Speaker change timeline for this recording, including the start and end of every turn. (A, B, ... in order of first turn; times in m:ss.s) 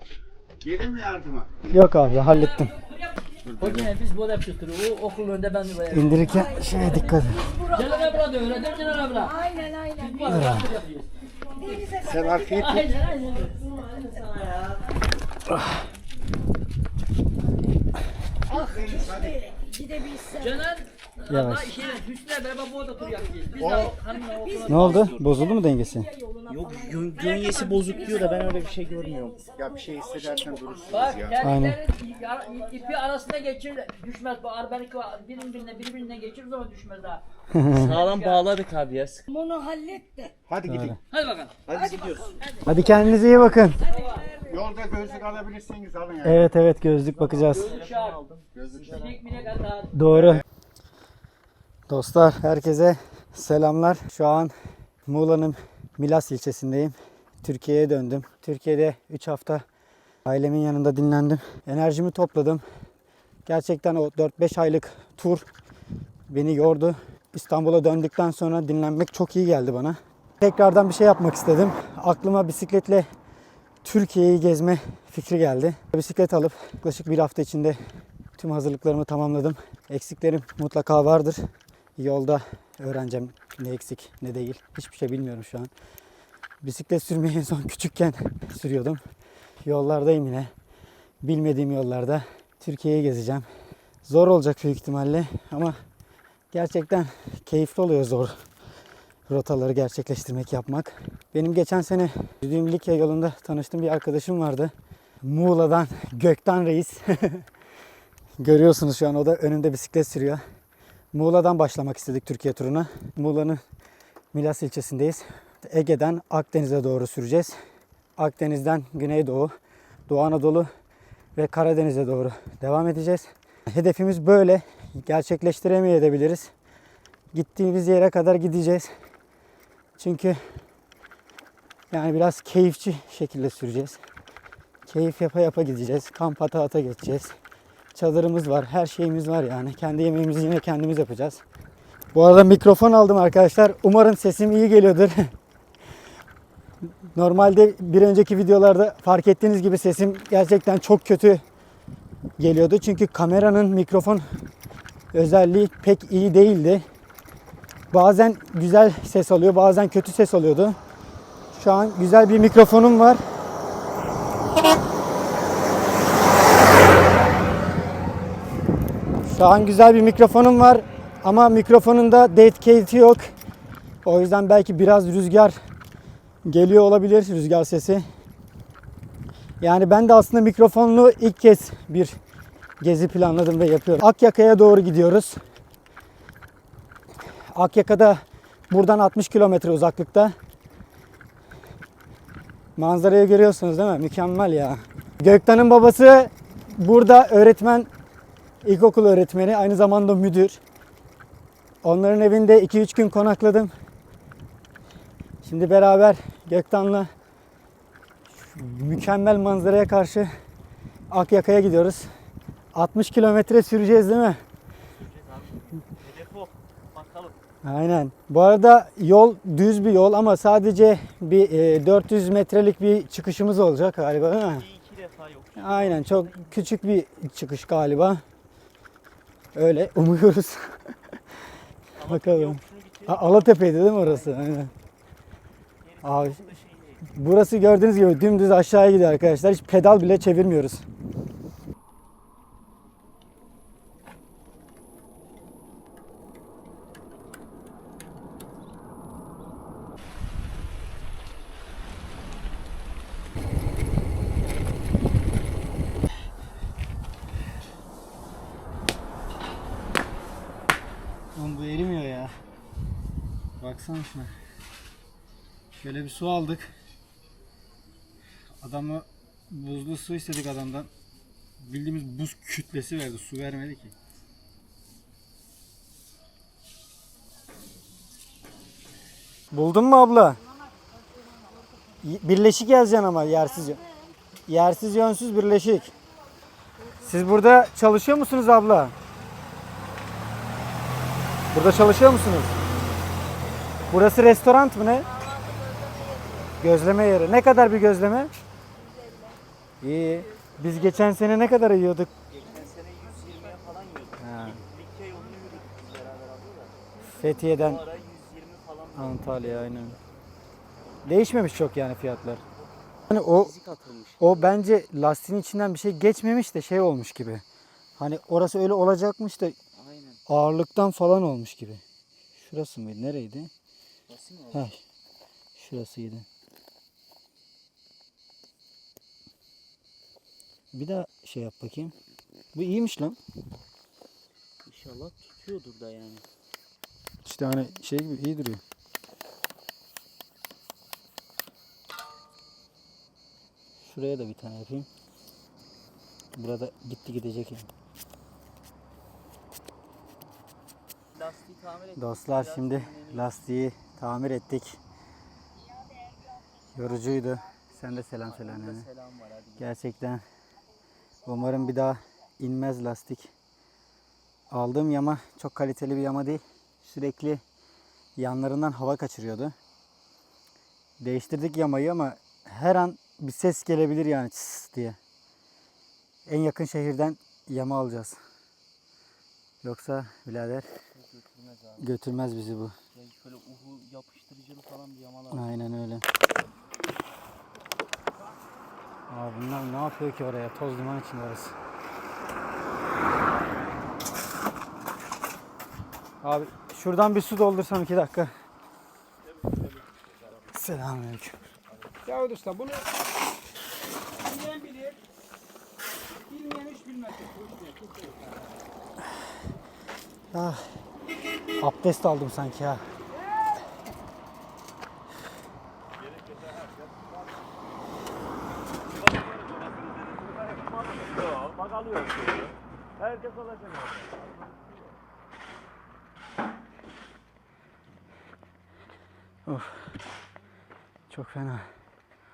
0:00.6-0:01.5 A
0:01.7-0:02.8 B
0:03.5-0:03.8 A
0:03.6-0:06.5 C
0:05.8-0:07.6 B
0:07.5-0:11.1 C
0:09.5-0:09.9 D
0:10.3-0:10.8 B
0:11.6-0:11.9 C
0:11.9-0:12.9 A
0:12.5-0:13.6 C
0:14.2-0:14.6 E
0:18.7-0:19.4 A
0:19.4-0:20.3 D
0:20.2-0:25.0 C
0:21.3-0:21.8 B
0:24.6-0:26.1 B
0:24.8-0:25.2 E
0:26.5-0:29.5 E
0:29.5-0:31.4 A
0:30.9-0:37.2 C
0:31.4-0:31.8 B
0:37.5-0:38.0 B
0:37.7-0:39.3 E
0:37.8-0:38.5 C
0:39.3-0:40.3 D
0:40.5-0:40.9 A
0:40.6-0:41.0 B
0:41.1-0:41.8 C
0:41.7-0:42.4 E
0:42.6-0:43.8 B
0:43.9-0:44.3 C
0:44.5-0:46.4 A
0:46.2-0:47.8 B
0:47.2-0:49.4 E
0:47.6-0:48.2 C
0:48.6-0:48.9 A
0:48.9-0:49.9 C
0:49.9-0:50.4 B
0:51.9-0:54.5 B
0:55.1-0:59.6 B
1:00.3-1:02.6 B
1:03.5-1:05.5 B
1:06.3-1:13.1 B
1:13.8-1:17.8 B
1:18.4-1:25.7 B
1:26.6-1:29.0 B
1:29.6-1:30.5 B
1:31.2-1:33.5 B
1:34.0-1:35.8 B
1:36.5-1:38.4 B
1:39.3-1:47.5 B
1:48.4-1:50.4 B
1:51.1-1:53.6 B
1:54.3-1:57.6 B
1:58.2-1:59.5 B
2:00.1-2:00.7 B
2:01.4-2:06.5 B
2:07.3-2:08.9 B
2:10.0-2:10.4 B
2:11.9-2:14.0 B
2:14.9-2:17.4 B
2:17.9-2:21.4 B
2:22.1-2:25.3 B
2:27.2-2:31.4 B
2:32.4-2:34.2 B
2:35.1-2:36.8 B
2:37.9-2:40.8 B
2:41.5-2:43.2 B
2:49.3-2:53.3 B
2:54.0-2:55.6 B
2:56.4-2:58.0 B
2:59.6-3:02.2 B
3:02.8-3:05.4 B
3:07.5-3:10.4 B
3:12.8-3:17.9 B
3:18.6-3:20.6 B
3:21.8-3:23.7 B
3:25.4-3:27.1 B
3:28.3-3:30.3 B
3:31.1-3:32.1 B
3:32.7-3:34.4 B
3:35.0-3:37.4 E
3:37.6-3:44.6 B
3:44.5-3:46.7 E
3:45.6-3:48.2 B
3:49.6-3:50.7 B
3:52.0-3:54.7 E
3:52.0-3:54.7 B
3:55.8-3:57.0 E
3:56.0-3:56.5 B
3:57.1-4:00.8 B
4:21.4-4:22.3 B
4:23.6-4:24.3 B
4:25.8-4:26.7 B
4:28.6-4:30.9 B
4:31.6-4:33.9 B
4:39.5-4:40.4 B
4:42.0-4:43.8 B
4:44.5-4:45.9 B
4:47.0-4:48.9 B
4:51.5-4:52.6 B
4:53.9-4:55.1 B
4:55.4-4:56.4 D
4:56.6-4:58.3 B
4:59.1-4:59.4 D
4:59.8-5:02.1 B
5:02.3-5:06.9 E
5:04.2-5:04.6 B
5:07.0-5:07.8 B
5:07.4-5:10.0 E
5:09.0-5:10.0 B
5:11.0-5:12.4 B
5:13.1-5:13.5 B
5:13.3-5:14.5 E
5:14.2-5:17.4 B
5:18.0-5:19.6 B
5:19.8-5:20.2 E
5:20.3-5:21.8 B
5:22.4-5:23.5 B
5:24.1-5:24.7 E
5:24.5-5:24.8 B
5:25.6-5:26.3 B
5:30.7-5:32.0 B
5:32.5-5:33.2 B
5:34.7-5:36.2 E
5:37.2-5:38.6 B
5:43.8-5:44.9 B
5:46.4-5:47.7 B
5:51.1-5:53.3 E
5:52.0-5:54.8 B
5:56.8-5:58.9 B
5:58.2-5:59.7 E
5:59.6-6:00.2 B
6:01.2-6:03.3 B
6:04.5-6:07.4 B
6:08.2-6:09.6 B
6:11.0-6:15.0 B
6:16.3-6:18.2 B
6:19.6-6:20.7 B
6:21.0-6:21.9 E
6:21.8-6:22.8 B
6:22.9-6:25.5 E
6:25.3-6:26.1 B
6:29.1-6:31.6 B
6:36.2-6:38.3 B
6:40.5-6:41.5 B
6:42.1-6:42.7 B
6:44.4-6:44.9 E
6:46.3-6:48.2 E
6:50.3-6:50.7 B
6:51.6-6:52.8 B
7:01.3-7:02.4 E
7:03.1-7:03.9 E
7:09.5-7:09.9 B
7:11.1-7:11.7 B